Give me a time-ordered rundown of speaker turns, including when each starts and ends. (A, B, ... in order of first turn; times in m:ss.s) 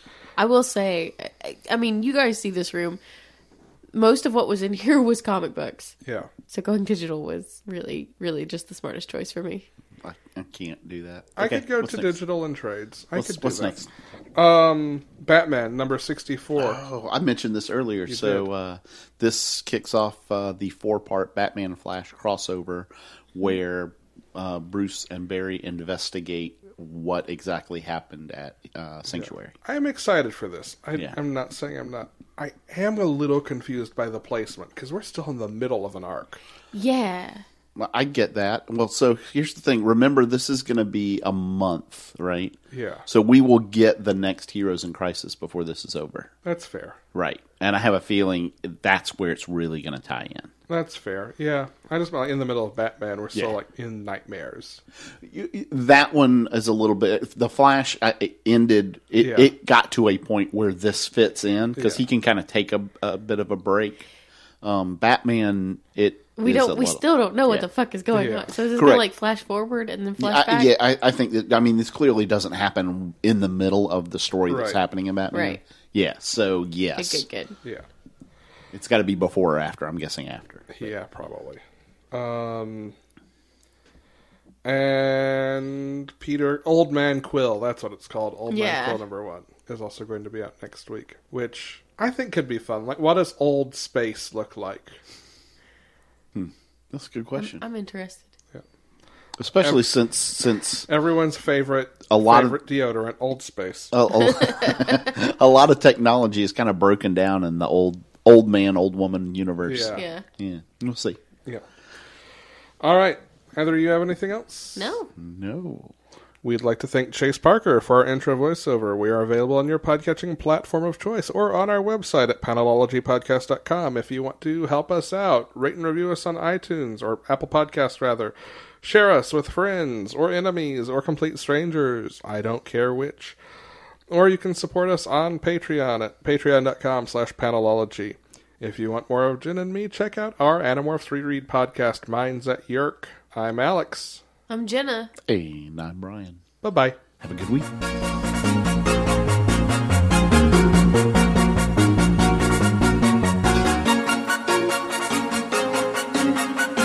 0:00.4-0:03.0 A
0:03.9-0:06.0 A
0:06.0-0:06.3 B
0:06.5-0:09.7 A
0:10.0-0:12.2 C
0:11.4-0:13.8 B
0:13.2-0:13.9 C
0:14.4-0:16.8 B
0:16.6-0:29.5 C
0:18.1-0:18.5 B
0:29.1-0:36.4 B
0:36.7-0:37.4 A
0:37.8-0:46.3 C
0:42.7-0:43.1 B
0:46.4-0:47.0 B
0:47.1-0:50.5 C
0:50.7-0:54.8 B
0:55.2-1:04.0 C
0:59.2-0:59.5 B
1:01.8-1:02.0 B
1:04.6-1:07.7 C
1:06.4-1:10.7 A
1:08.1-1:08.5 B
1:08.8-1:09.1 C
1:10.2-1:17.2 C
1:14.5-1:14.8 B
1:15.3-1:15.6 A
1:17.0-1:17.6 A
1:18.7-1:20.9 C
1:20.7-1:23.0 B
1:24.6-1:35.0 B
1:28.5-1:29.0 A
1:36.4-1:37.6 C
1:37.4-1:38.3 A
1:39.4-1:40.9 C
1:39.6-1:39.8 B
1:40.9-1:43.9 B
1:42.1-1:42.6 C
1:43.9-1:51.2 C
1:44.3-1:44.9 A
1:49.7-1:50.0 B
1:50.0-1:50.2 A
1:52.8-1:54.9 B
1:54.8-1:55.1 A
1:55.2-1:55.9 C
1:56.4-2:13.4 B
2:14.1-2:24.2 B
2:24.5-2:25.1 A
2:25.2-2:26.4 C
2:26.6-2:27.0 B
2:27.2-2:27.7 C